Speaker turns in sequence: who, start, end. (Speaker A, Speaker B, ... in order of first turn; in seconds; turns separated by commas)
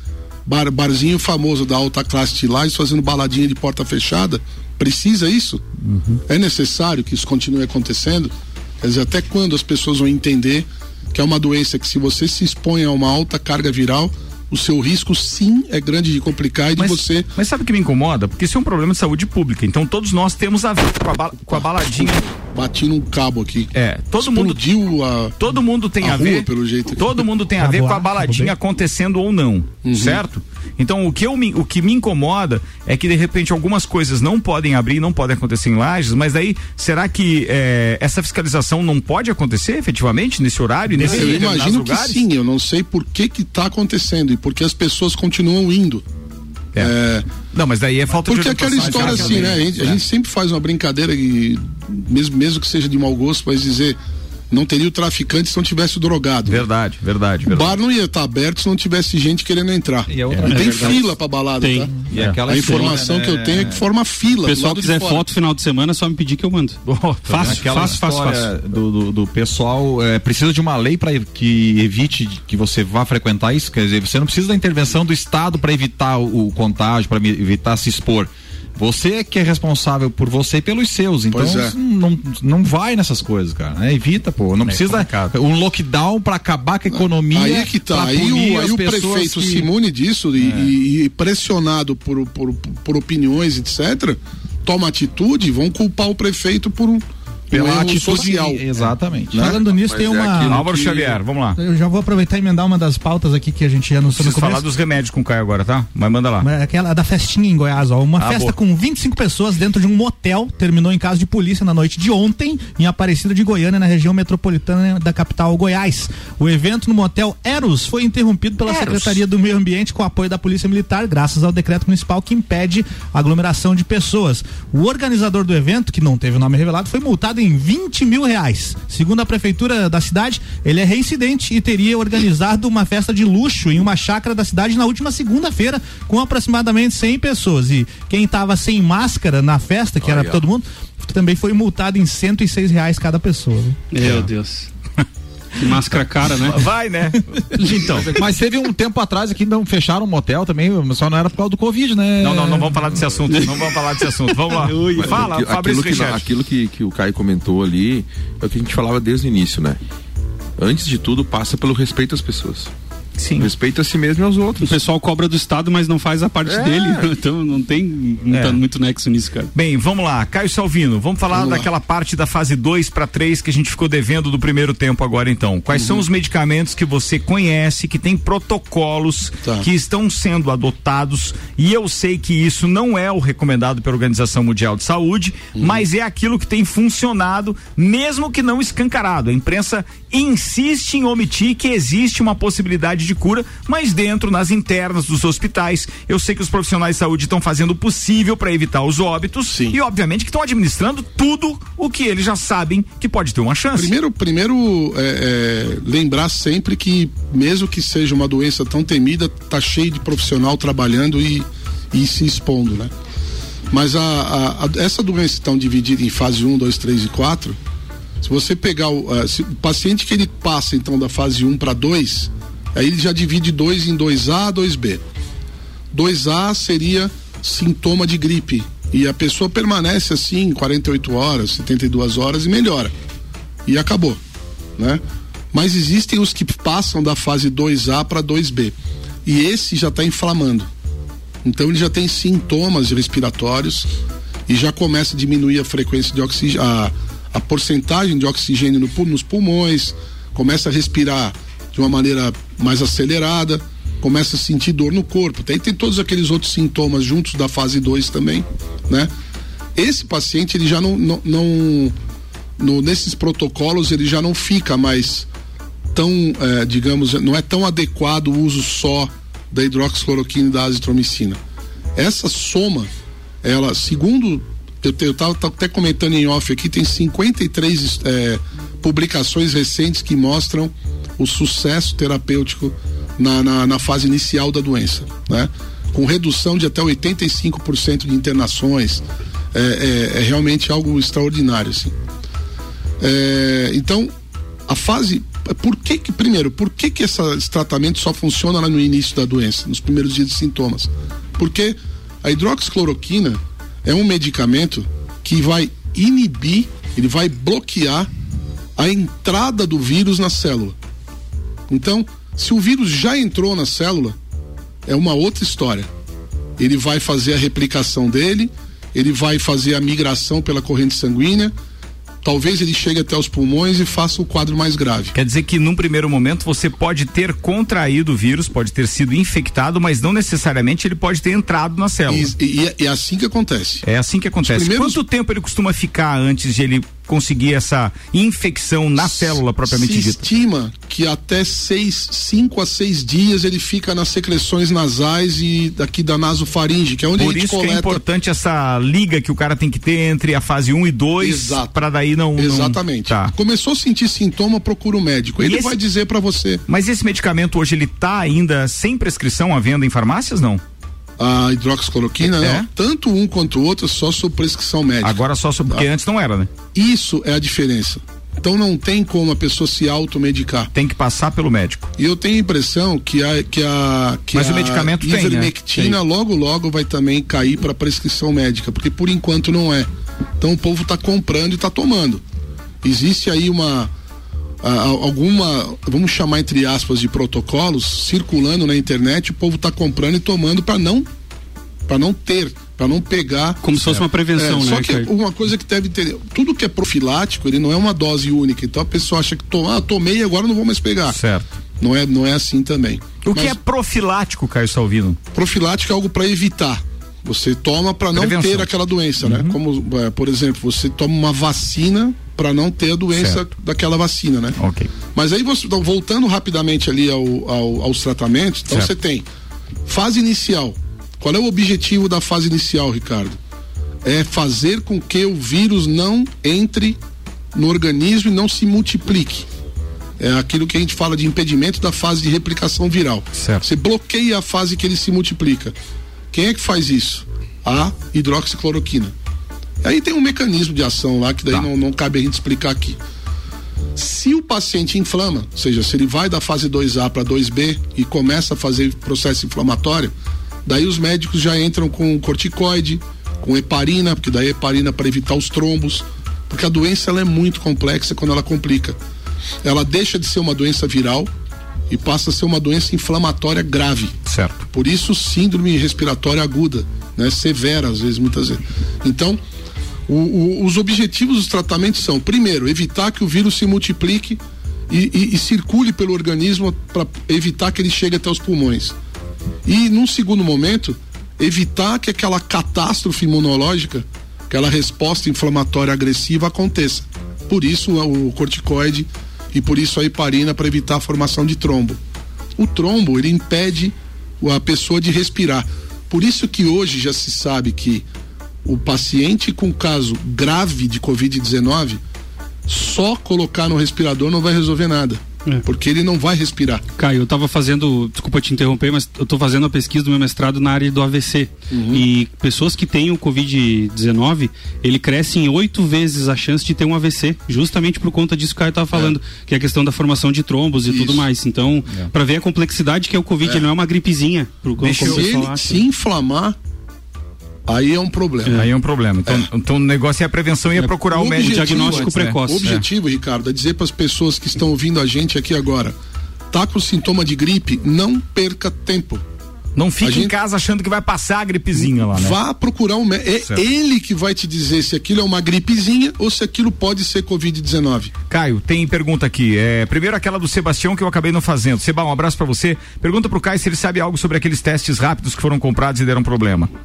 Speaker A: 0.5-5.6, Speaker B: 5.9-6.2, Speaker A: 6.3-17.3, Speaker B: 16.8-22.3, Speaker A: 21.5-25.4, Speaker B: 23.7-24.6, Speaker B: 25.4-42.2, Speaker A: 26.0-27.2, Speaker C: 27.6-28.6, Speaker A: 29.8-30.2, Speaker A: 41.0-46.0, Speaker A: 46.8-47.3, Speaker B: 47.5-50.0, Speaker A: 48.2-54.0, Speaker A: 54.5-56.6, Speaker B: 56.5-57.8, Speaker A: 57.5-61.9, Speaker D: 60.1-61.0, Speaker E: 60.4-61.9, Speaker D: 62.1-63.8, Speaker B: 62.1-62.4, Speaker A: 62.5-65.3, Speaker E: 62.5-63.0, Speaker E: 64.4-68.5, Speaker B: 66.9-68.0, Speaker D: 67.3-89.7, Speaker A: 81.3-81.7, Speaker B: 84.6-85.4, Speaker A: 86.9-98.6, Speaker D: 90.4-90.7, Speaker D: 97.5-99.6, Speaker A: 99.3-99.6, Speaker C: 99.3-100.7, Speaker F: 99.7-101.2, Speaker B: 100.5-101.6, Speaker C: 101.6-104.6, Speaker B: 104.2-106.5, Speaker C: 106.4-143.8, Speaker B: 108.2-108.5, Speaker B: 118.7-119.2, Speaker F: 140.0-140.4, Speaker E: 143.9-144.7, Speaker E: 145.6-146.7, Speaker B: 146.4-148.1, Speaker D: 148.2-152.8, Speaker B: 152.2-156.2, Speaker E: 153.3-155.3, Speaker F: 155.0-159.8, Speaker F: 160.6-162.7, Speaker B: 163.2-163.5, Speaker F: 163.4-164.8, Speaker E: 164.6-169.5, Speaker F: 166.4-167.1, Speaker B: 168.3-168.6, Speaker B: 169.5-203.9, Speaker A: 171.3-171.7, Speaker A: 175.7-176.1, Speaker A: 185.6-185.9, Speaker A: 199.5-199.8, Speaker A: 203.8-212.9, Speaker A: 213.7-217.6, Speaker A: 218.2-225.0, Speaker A: 225.9-232.9, Speaker A: 233.7-234.2, Speaker A: 234.8-240.7, Speaker A: 241.4-243.9, Speaker A: 244.5-259.1, Speaker A: 259.8-261.9, Speaker A: 262.6-265.3, Speaker A: 265.9-271.4, Speaker A: 272.0-272.9, Speaker A: 273.4-291.9, Speaker A: 293.0-294.1, Speaker A: 294.7-308.1, Speaker A: 308.8-310.8, Speaker A: 311.7-314.2, Speaker A: 314.9-315.9, Speaker A: 316.6-321.5, Speaker A: 322.2-325.1, Speaker B: 325.1-332.3, Speaker A: 332.1-333.8, Speaker B: 333.8-340.2, Speaker A: 334.4-335.0, Speaker A: 339.0-348.0, Speaker B: 347.2-353.3, Speaker A: 351.2-351.7, Speaker A: 352.4-356.6, Speaker B: 355.4-355.8, Speaker B: 356.7-360.6, Speaker A: 361.2-365.9, Speaker B: 362.3-362.7, Speaker B: 365.0-366.5, Speaker A: 366.7-370.7, Speaker B: 370.7-371.9, Speaker A: 372.0-382.2, Speaker B: 374.3-376.0, Speaker A: 382.8-383.9, Speaker A: 384.6-391.1, Speaker A: 391.9-393.7, Speaker E: 393.6-395.1, Speaker A: 394.4-401.2, Speaker B: 401.1-401.4, Speaker A: 401.8-403.6, Speaker B: 403.2-405.2, Speaker A: 405.3-414.6, Speaker B: 408.1-408.7, Speaker B: 409.2-409.6, Speaker B: 413.1-413.4, Speaker B: 414.6-414.9, Speaker A: 415.1-419.3, Speaker A: 419.9-423.4, Speaker A: 424.1-427.0, Speaker A: 427.5-429.5, Speaker A: 430.2-435.7, Speaker B: 433.4-433.6, Speaker A: 436.3-439.1, Speaker A: 439.8-443.0, Speaker A: 443.9-450.1, Speaker A: 450.7-459.0, Speaker A: 459.6-461.3, Speaker A: 461.9-464.1, Speaker B: 464.3-464.6, Speaker A: 464.7-469.4, Speaker A: 470.1-479.0, Speaker A: 479.7-492.0, Speaker A: 492.6-498.1, Speaker A: 498.6-502.0, Speaker A: 502.7-506.8, Speaker E: 507.0-525.8, Speaker A: 511.7-512.1, Speaker A: 520.9-521.2, Speaker A: 523.4-523.7, Speaker B: 524.8-525.4, Speaker A: 525.0-526.6, Speaker A: 527.7-528.7, Speaker B: 528.5-532.8, Speaker A: 531.1-536.0, Speaker E: 531.3-532.8, Speaker A: 536.5-539.2, Speaker B: 539.8-542.4, Speaker A: 540.0-540.4, Speaker A: 541.8-548.1, Speaker B: 548.3-556.7